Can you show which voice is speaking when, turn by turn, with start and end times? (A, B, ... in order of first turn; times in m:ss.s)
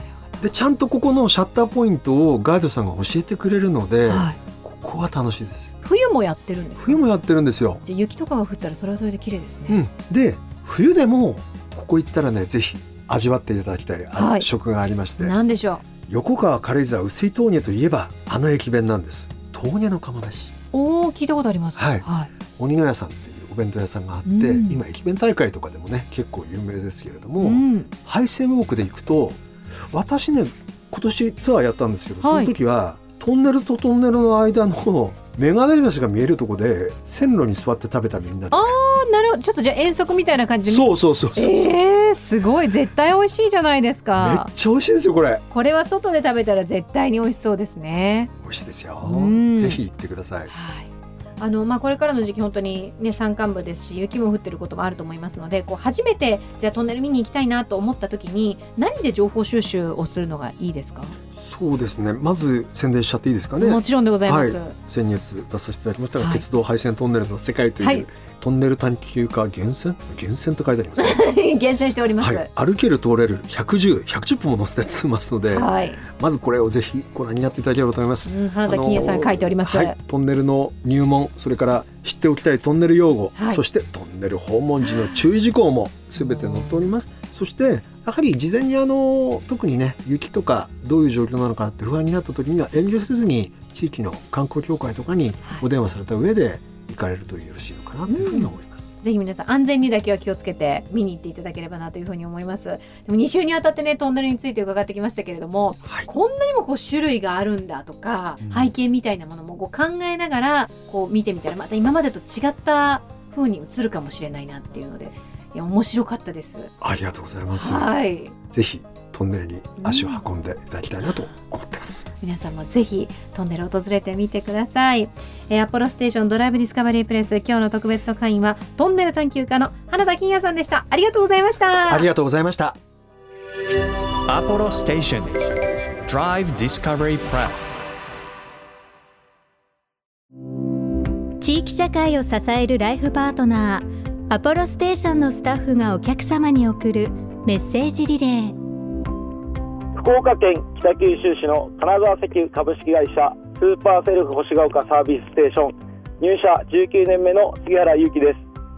0:00.4-0:05.8 A
0:04.1-0:04.4 B
0:05.8-0:07.0 B
0:06.8-0:07.8 A
0:07.8-0:09.8 B
0:09.7-0:15.4 A
0:14.1-0:14.5 B
0:15.2-0:15.8 B
0:16.1-0:20.6 A
0:20.7-0:22.3 B
0:21.8-0:38.7 A
0:24.2-0:24.8 B
0:27.4-0:27.9 B
0:32.2-0:32.5 B
0:38.5-0:44.5 B
0:40.6-0:41.8 A
0:44.2-0:45.4 A
0:45.5-0:48.3 B
0:48.4-0:50.5 A
0:49.0-0:49.8 B
0:50.5-1:01.2 B
1:01.4-1:11.4 A
1:03.6-1:04.8 B
1:06.2-1:06.4 B
1:07.8-1:08.0 B
1:11.0-1:12.5 B
1:12.2-1:39.0 A
1:15.5-1:16.0 B
1:18.3-1:20.0 B
1:23.4-1:23.6 B
1:24.9-1:25.2 B
1:26.2-1:26.9 B
1:38.1-1:56.7 B
1:48.4-1:48.7 A
1:56.8-1:57.9 A
1:57.6-1:58.4 B
1:58.4-2:02.1 A
1:59.8-2:00.2 B
2:02.2-2:12.1 B
2:11.9-2:12.8 A
2:14.3-2:17.8 C
2:21.4-2:28.6 D
2:30.0-2:38.4 E